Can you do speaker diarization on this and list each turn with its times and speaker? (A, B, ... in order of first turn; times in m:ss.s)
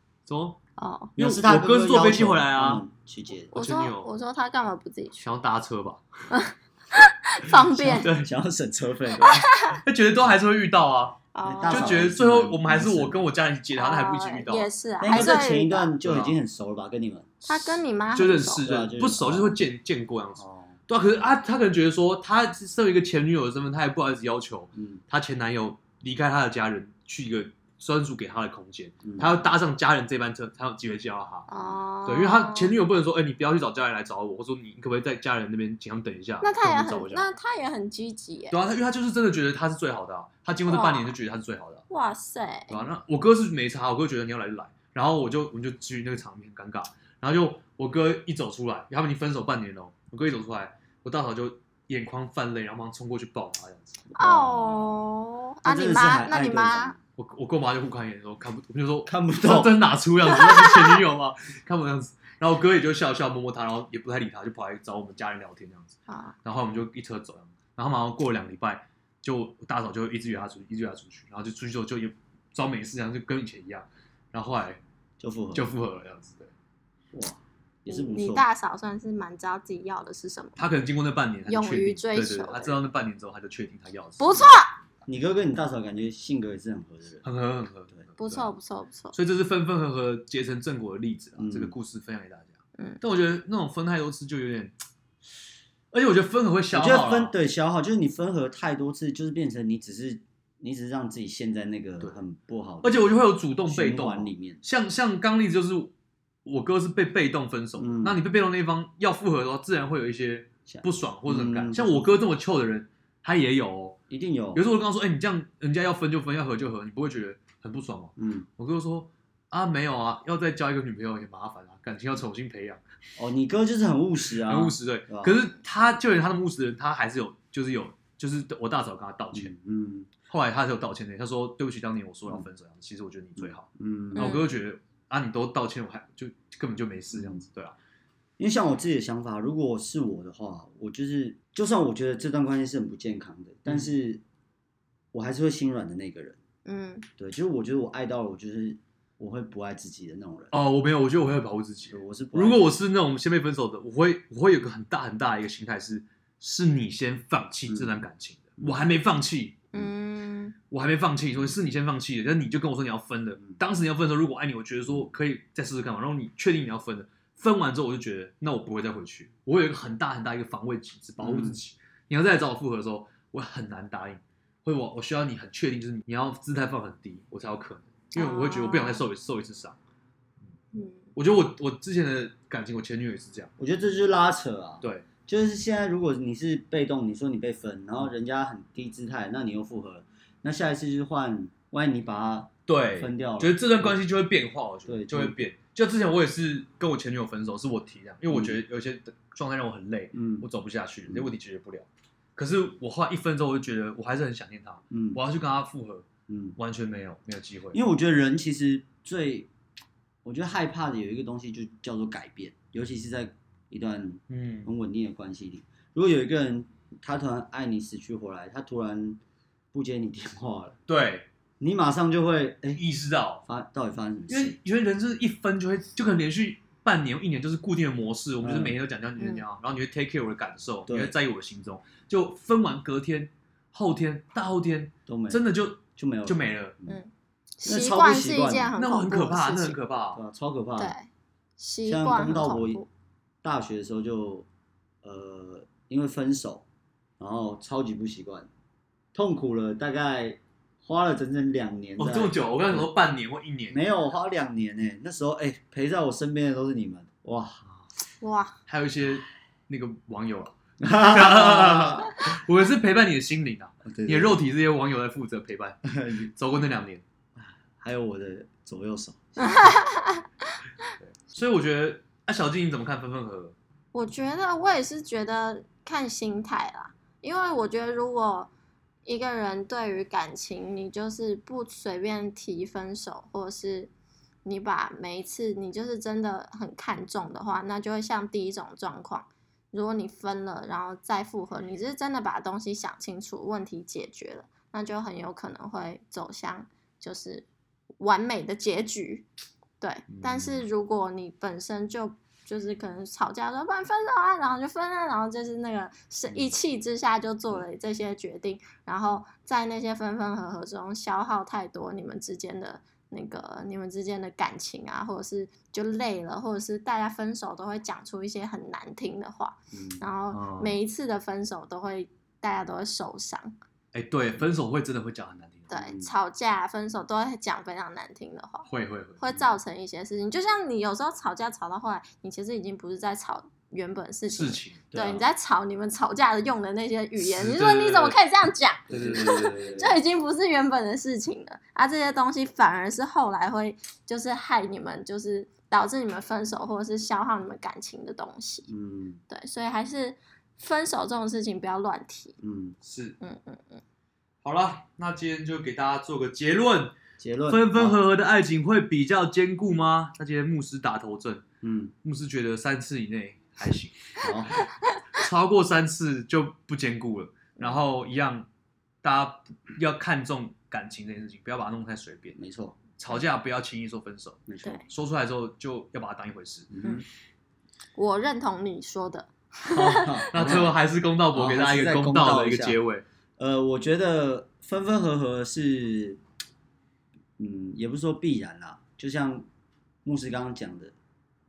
0:00.2-0:00.6 A
0:00.8-0:01.1 B
0:01.2-0:02.8 A
0:01.2-0:03.5 C
0:03.5-0:05.3 B
0:03.5-0:04.1 A
0:05.2-0:06.0 A
0:06.3-0:08.1 B
0:07.7-0:09.5 C
0:07.9-0:08.3 A
0:09.3-0:09.8 B
0:09.7-0:15.4 A
0:11.3-0:12.0 B
0:11.4-0:13.3 C
0:13.8-0:15.9 B
0:15.0-0:17.4 C
0:16.0-0:16.4 A
0:17.5-0:18.7 B
0:17.5-0:31.5 A
0:18.6-0:19.6 C
0:20.4-0:20.7 C
0:24.7-0:25.0 C
0:29.0-0:29.5 C
0:31.5-0:32.7 B
0:32.0-0:37.2 A
0:36.4-0:38.6 B
0:38.5-0:41.8 A
0:40.7-0:41.2 B
0:41.9-0:42.8 B
0:42.7-0:54.9 A
0:54.1-0:54.6 C
0:54.2-0:57.0 B
0:55.6-0:57.0 C
0:57.2-1:14.8 A
0:59.0-0:59.8 C
1:00.3-1:00.9 B
1:06.1-1:06.4 B
1:15.2-1:15.7 C
1:15.5-1:16.5 A
1:17.1-1:18.4 C
1:17.9-1:20.6 B
1:20.6-1:24.5 A
1:21.4-1:22.8 B
1:24.2-1:24.7 B
1:25.0-1:27.2 C
1:27.2-1:28.5 A
1:28.2-1:29.2 B
1:29.1-1:34.8 A
1:31.4-1:31.8 C
1:35.9-1:37.3 A
1:36.7-1:44.6 C
1:42.8-1:45.9 A
1:46.4-1:54.0 A
1:47.8-1:48.2 C
1:50.7-1:52.2 C
1:54.1-1:54.6 C
1:54.5-2:02.8 A
1:58.2-1:58.5 C
2:03.2-2:05.4 C
2:04.3-2:09.5 A
2:09.3-2:10.1 C
2:10.2-2:17.8 A
2:13.4-2:14.4 C
2:14.2-2:14.5 B
2:17.1-2:17.4 C
2:18.4-2:24.2 C
2:25.1-2:26.4 C
2:26.6-2:27.0 B
2:27.2-2:30.5 C
2:30.5-2:39.6 A
2:31.9-2:32.8 C
2:37.7-2:38.0 C
2:39.7-2:40.5 B
2:40.7-2:59.8 A
2:51.2-2:51.6 C
2:58.1-2:59.0 B
3:00.7-3:01.1 B
3:01.1-3:03.5 A
3:03.6-3:14.0 C
3:12.7-3:27.8 A
3:14.8-3:15.4 C
3:18.3-3:18.6 C
3:20.1-3:20.4 C
3:24.9-3:25.2 C
3:26.3-3:26.6 C
3:27.7-3:29.5 C
3:30.2-3:39.2 C
3:34.3-3:34.7 A
3:39.7-3:40.8 C
3:40.9-3:41.3 A
3:41.6-3:42.8 C
3:42.8-3:43.4 A
3:43.4-3:44.6 C
3:44.3-3:56.8 A
3:48.4-3:48.8 C
3:49.2-3:49.4 B
3:50.9-3:51.1 C
3:55.1-3:55.4 C
3:56.0-3:57.0 C
3:56.9-3:59.8 B
3:57.6-3:58.8 C
3:58.8-4:00.2 A
4:00.1-4:00.9 C
4:00.8-4:02.9 B
4:01.9-4:02.8 C
4:03.4-4:04.4 C
4:05.0-4:06.6 C
4:07.2-4:08.5 C
4:09.1-4:12.9 C
4:12.0-4:13.8 A
4:13.7-4:17.6 C
4:18.2-4:18.6 B
4:18.7-4:25.8 A
4:20.8-4:22.1 C
4:23.8-4:24.4 C
4:25.8-4:26.3 C
4:26.3-4:27.0 A
4:27.4-4:29.5 C
4:29.4-4:30.3 B
4:31.1-4:33.5 A
4:33.9-4:38.5 B
4:39.0-4:43.9 B
4:44.4-4:57.4 B
4:58.0-4:59.2 B
4:59.8-5:23.5 B
5:00.1-5:00.6 A
5:19.7-5:20.0 C
5:20.3-5:20.8 A
5:23.9-5:25.8 A
5:25.7-5:28.7 B
5:25.7-5:26.1 C
5:28.6-5:29.4 A
5:29.2-5:48.7 B
5:34.3-5:34.8 A
5:34.9-5:35.3 C
5:37.2-5:38.2 A
5:38.9-5:39.7 A
5:38.9-5:40.0 C
5:48.7-5:49.2 C
5:49.3-5:52.4 B
5:52.4-5:52.8 C
5:52.8-5:53.2 A
5:53.2-5:53.8 B
5:54.4-5:56.9 A
5:57.2-5:58.0 C
5:57.5-6:01.4 A
6:01.6-6:01.9 C
6:02.0-6:04.0 A
6:04.2-6:04.6 C
6:05.2-6:08.5 A
6:09.0-6:12.4 A
6:12.3-6:12.8 C
6:13.0-6:16.7 A
6:14.5-6:14.8 C
6:16.7-6:17.0 C
6:17.9-6:20.7 B
6:19.7-6:23.0 A
6:20.0-6:20.7 C
6:21.3-6:22.8 C
6:23.4-6:26.2 C
6:27.4-6:29.4 C
6:30.0-6:30.9 C